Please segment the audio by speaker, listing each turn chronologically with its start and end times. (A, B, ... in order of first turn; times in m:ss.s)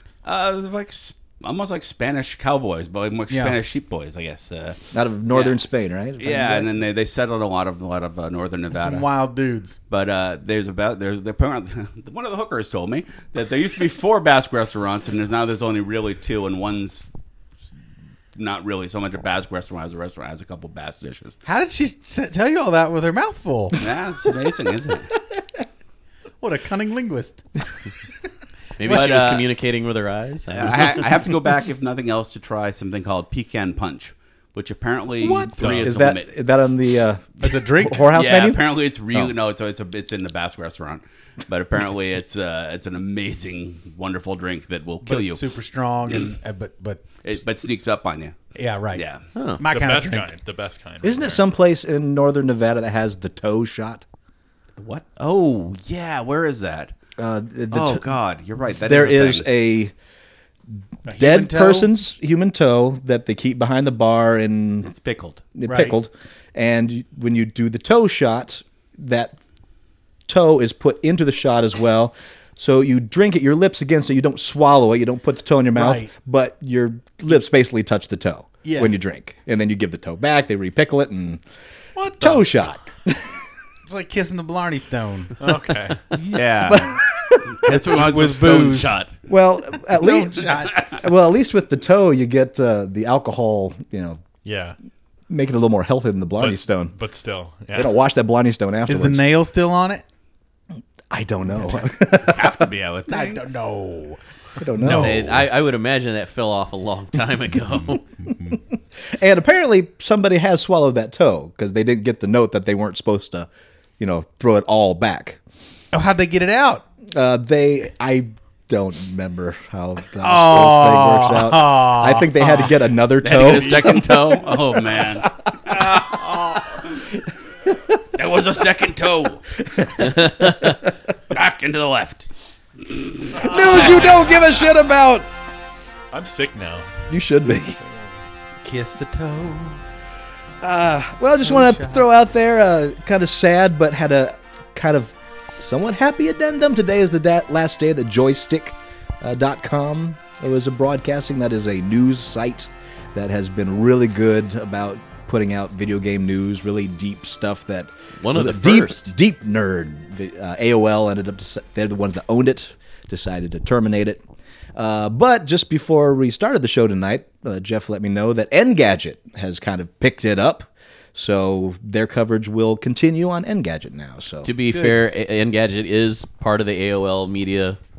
0:00.2-0:04.8 A
0:03.3-0:03.6 B
0:04.9-0:06.7 C
0:05.3-0:05.6 A
0:06.2-0:09.0 A
0:08.7-0:09.8 B
0:09.9-0:17.0 A
0:18.3-0:21.3 A
0:21.4-0:23.8 B
0:23.8-0:25.1 A
0:26.4-0:27.4 B
0:28.8-0:31.1 D
0:28.8-0:29.5 A
0:30.5-0:36.2 A
0:35.2-0:39.3 C
0:35.6-0:35.9 E
0:37.4-0:38.1 B
0:38.1-0:45.4 A
0:45.0-0:47.1 B
0:46.1-0:46.3 A
0:47.2-0:48.4 A
0:48.5-0:49.0 B
0:48.9-0:49.2 A
0:49.3-0:49.6 D
0:49.6-0:50.3 B
0:49.7-0:51.4 E
0:51.0-0:54.0 C
0:54.8-0:55.0 B
0:55.1-0:56.9 A
0:57.2-0:58.2 C
0:57.7-0:59.4 A
0:58.8-0:59.9 C
1:01.0-1:01.9 B
1:01.1-1:04.9 C
1:04.9-1:05.5 A
1:05.6-1:09.4 C
1:05.7-1:06.0 B
1:10.3-1:21.4 C
1:15.7-1:16.1 B
1:18.6-1:19.0 B
1:22.0-1:22.5 B
1:22.2-1:23.4 C
1:23.8-1:25.4 B
1:25.4-1:26.0 E
1:26.1-1:27.0 A
1:26.7-1:27.6 C
1:27.6-1:29.1 A
1:27.7-1:29.0 B
1:29.3-1:34.2 C
1:29.9-1:30.8 B
1:34.4-1:34.8 E
1:35.3-1:36.9 C
1:36.4-1:37.9 E
1:37.7-1:39.2 C
1:38.9-1:40.0 B
1:41.1-1:42.5 C
1:41.5-1:41.9 B
1:42.1-1:43.5 A
1:43.1-1:45.4 B
1:44.6-1:45.4 C
1:44.8-1:48.0 D
1:47.9-1:48.6 B
1:49.1-1:53.5 C
1:54.0-1:55.4 C
1:55.9-1:56.8 B
1:57.1-2:06.1 C
2:00.2-2:02.9 B
2:03.2-2:07.0 A
2:08.2-2:09.4 A
2:09.7-2:10.8 C
2:11.3-2:12.2 A
2:12.8-2:14.1 A
2:13.4-2:15.3 C
2:16.1-2:16.9 E
2:17.1-2:17.8 C
2:18.6-2:19.8 B
2:20.6-2:44.2 C
2:21.4-2:22.1 B
2:38.2-2:39.1 D
2:44.8-2:55.0 C
2:54.4-2:57.8 D